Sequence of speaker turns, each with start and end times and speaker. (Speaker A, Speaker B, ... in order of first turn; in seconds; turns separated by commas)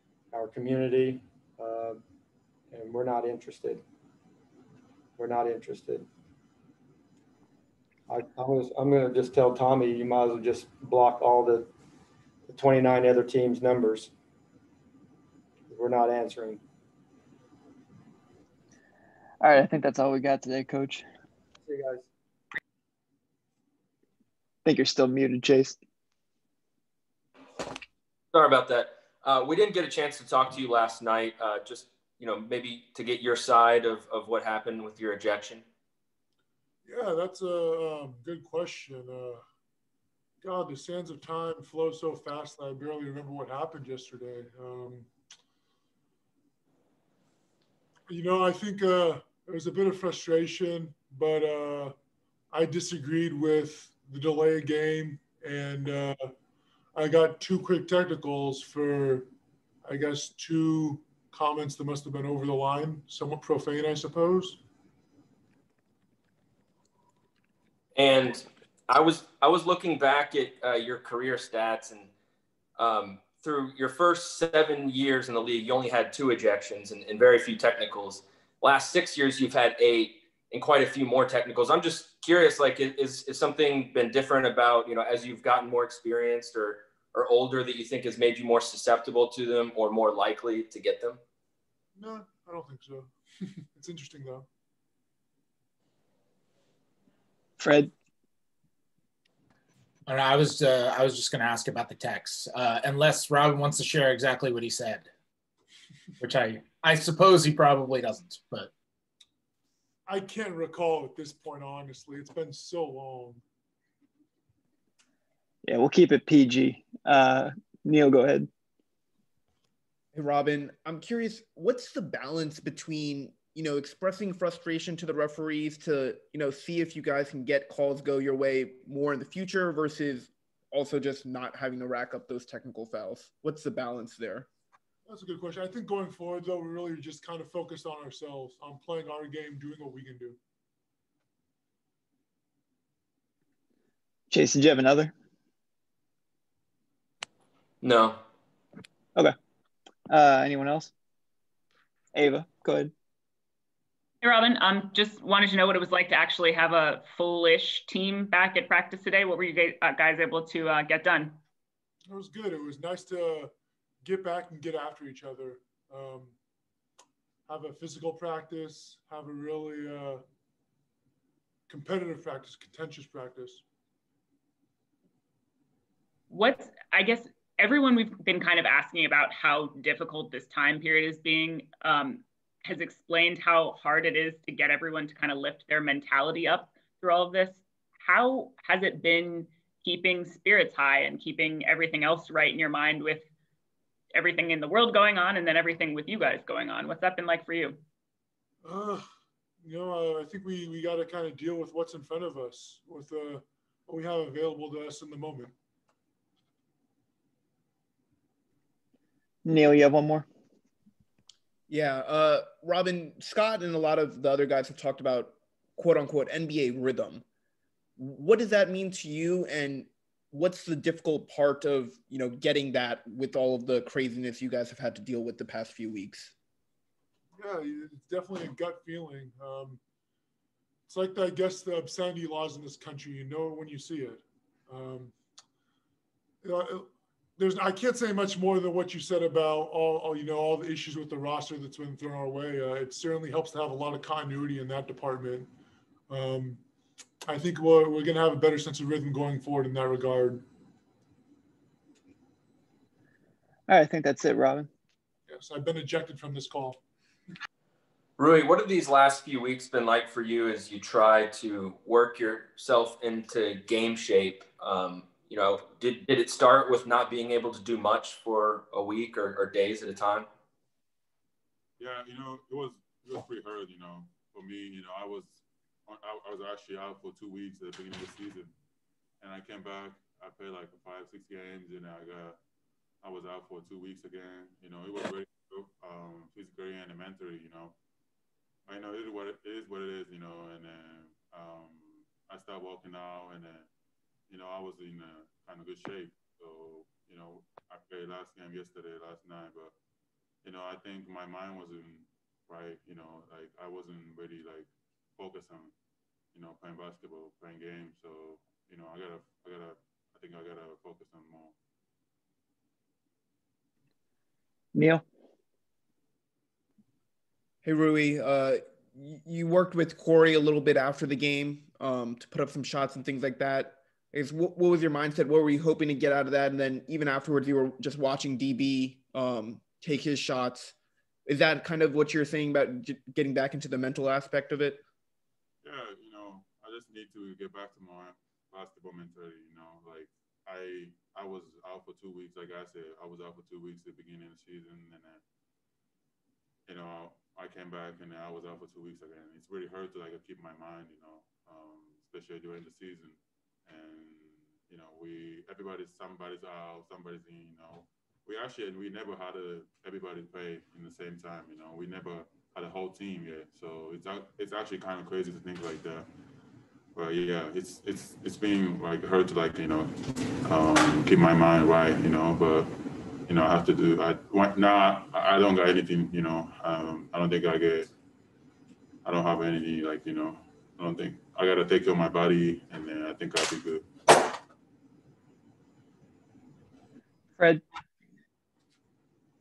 Speaker A: 0.3-2.0, Speaker A: 2.7-3.8, Speaker A: 5.2-6.1, Speaker A: 8.1-11.7, Speaker A: 12.5-14.1, Speaker A: 15.7-16.6, Speaker B: 19.4-21.0, Speaker A: 21.6-22.1, Speaker B: 24.6-25.8, Speaker C: 28.3-35.6, Speaker D: 36.9-39.4, Speaker D: 40.4-45.1, Speaker D: 48.1-52.0, Speaker D: 52.5-56.3, Speaker D: 57.0-59.3, Speaker D: 59.8-64.6, Speaker C: 68.0-72.1, Speaker C: 72.8-91.2, Speaker D: 92.0-94.5, Speaker B: 97.6-97.9, Speaker E: 100.1-105.1, Speaker E: 106.2-108.7, Speaker D: 110.1-113.4, Speaker B: 115.7-118.5, Speaker F: 120.1-134.5, Speaker D: 135.1-140.4, Speaker B: 144.3-145.1, Speaker C: 147.8-148.2, Speaker B: 150.1-150.9, Speaker B: 152.1-152.9, Speaker G: 154.2-161.4, Speaker D: 162.1-166.3, Speaker D: 167.5-170.2, Speaker D: 171.7-173.6, Speaker G: 176.3-193.3, Speaker G: 194.1-197.8, Speaker D: 198.6-199.1, Speaker D: 199.6-205.6, Speaker B: 209.4-210.3, Speaker F: 211.7-217.2, Speaker F: 218.0-226.3, Speaker D: 227.4-229.8, Speaker D: 230.9-235.2, Speaker D: 236.4-245.5, Speaker D: 246.1-246.6, Speaker D: 247.3-250.4, Speaker B: 253.7-254.7, Speaker D: 255.3-256.8, Speaker C: 258.2-270.3, Speaker H: 271.8-278.5, Speaker H: 279.2-282.4, Speaker H: 283.0-287.8, Speaker H: 288.7-293.7, Speaker H: 294.3-299.7, Speaker H: 300.4-305.7, Speaker H: 306.3-311.6, Speaker B: 314.8-315.0, Speaker F: 317.6-330.8, Speaker F: 331.3-334.8, Speaker H: 335.6-345.2, Speaker H: 346.7-366.1, Speaker H: 366.9-377.9, Speaker H: 379.1-384.2, Speaker B: 387.4-387.6